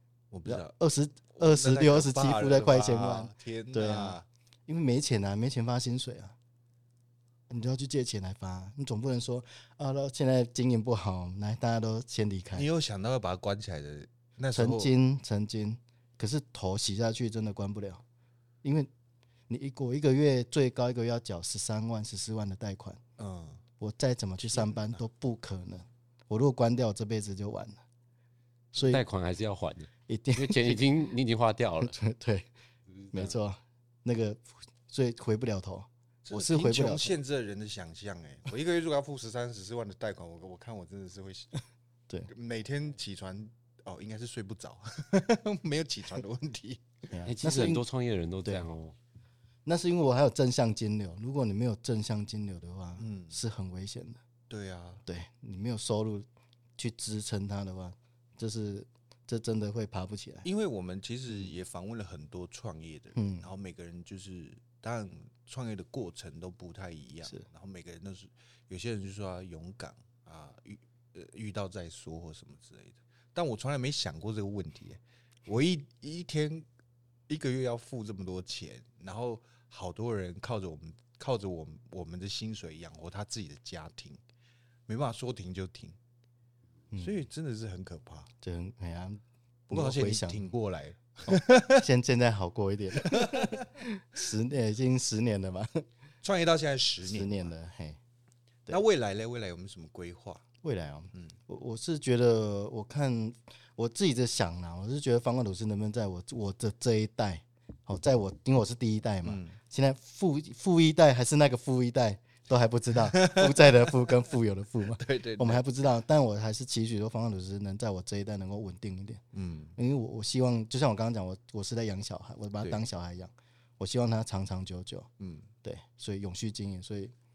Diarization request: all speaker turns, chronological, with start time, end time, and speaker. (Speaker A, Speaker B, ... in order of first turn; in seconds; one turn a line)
Speaker A: 0.3-0.7
Speaker B: 0.5-6.3
Speaker A: 1.3-4.2
Speaker B: 7.5-12.7
Speaker A: 12.5-14.9
Speaker B: 14.5-18.0
Speaker B: 18.6-18.9
Speaker B: 19.5-23.0
Speaker A: 23.2-23.6
Speaker B: 23.8-27.8
Speaker A: 24.4-25.0
Speaker B: 28.7-29.0
Speaker C: 28.8-31.9
Speaker B: 30.1-30.8
Speaker B: 31.8-32.5
Speaker C: 33.0-33.3
Speaker B: 33.1-37.1
Speaker A: 36.2-41.5
Speaker A: 42.3-46.8
Speaker B: 47.1-47.8
Speaker C: 47.2-48.9
Speaker B: 49.6-54.2
Speaker A: 53.0-53.4
Speaker A: 54.5-55.0
Speaker B: 55.0-56.2
Speaker B: 56.8-60.5
Speaker A: 60.4-76.7
Speaker B: 63.1-63.5
Speaker A: 77.3-84.2
Speaker A: 84.9-86.0
Speaker B: 86.9-87.2
Speaker A: 87.0-88.3
Speaker B: 88.4-90.5
Speaker A: 89.7-91.8
Speaker B: 91.3-95.8
Speaker A: 93.0-93.7
Speaker A: 96.2-97.5
Speaker B: 97.0-98.0
Speaker A: 98.7-100.4
Speaker B: 100.6-119.2
Speaker A: 109.2-109.6
Speaker A: 113.1-113.7
Speaker A: 115.0-115.6
Speaker A: 119.3-119.7
Speaker B: 119.8-125.1
Speaker A: 125.2-125.5
Speaker B: 125.6-127.1